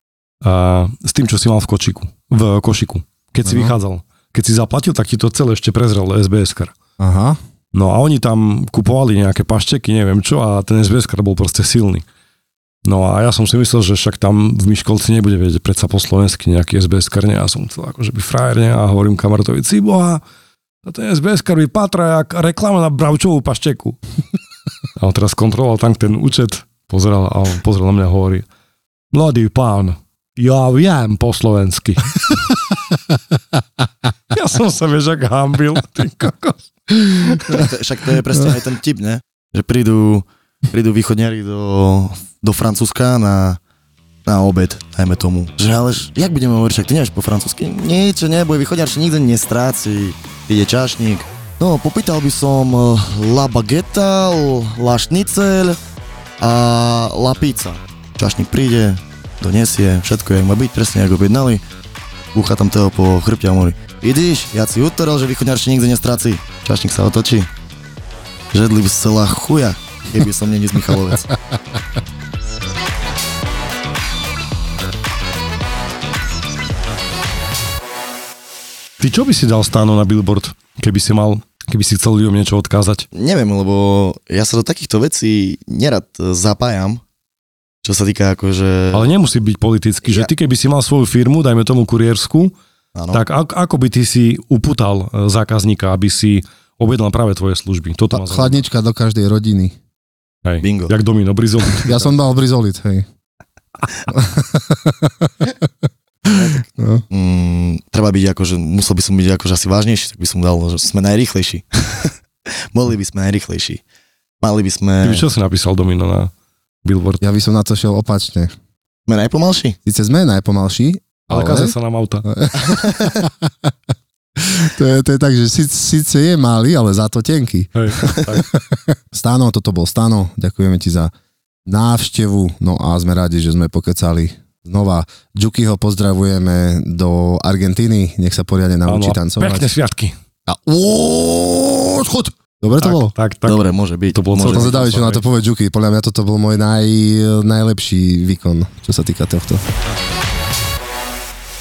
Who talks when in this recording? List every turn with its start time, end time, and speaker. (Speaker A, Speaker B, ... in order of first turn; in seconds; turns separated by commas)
Speaker A: 0.4-6.7, Speaker B: 3.4-3.7, Speaker B: 7.0-7.4, Speaker A: 7.7-12.0, Speaker A: 12.8-20.2, Speaker A: 20.8-24.0, Speaker A: 24.9-28.4, Speaker A: 29.1-32.5, Speaker A: 34.3-37.6, Speaker C: 37.5-43.6, Speaker C: 44.2-55.8, Speaker C: 56.4-61.6, Speaker C: 62.3-67.5, Speaker C: 68.5-71.3, Speaker A: 79.0-83.0, Speaker C: 83.1-87.0, Speaker C: 87.8-89.1, Speaker A: 88.9-92.5, Speaker C: 90.0-90.3, Speaker C: 92.9-93.2, Speaker A: 93.1-98.6, Speaker B: 98.1-99.7, Speaker A: 100.4-102.0, Speaker C: 100.6-100.9, Speaker B: 101.8-103.0, Speaker B: 104.1-105.7, Speaker C: 106.2-112.1, Speaker B: 106.8-107.0, Speaker C: 112.7-113.8, Speaker C: 114.4-115.2, Speaker A: 115.0-116.3, Speaker A: 116.8-117.2, Speaker B: 117.2-118.5, Speaker C: 119.1-119.8, Speaker B: 119.8-123.5, Speaker A: 121.3-122.2, Speaker C: 122.6-123.2, Speaker B: 124.4-131.1, Speaker A: 127.7-128.5, Speaker B: 131.7-139.7, Speaker A: 138.8-140.1, Speaker B: 140.5-143.1, Speaker A: 142.8-145.2, Speaker C: 143.4-144.9, Speaker B: 144.4-149.6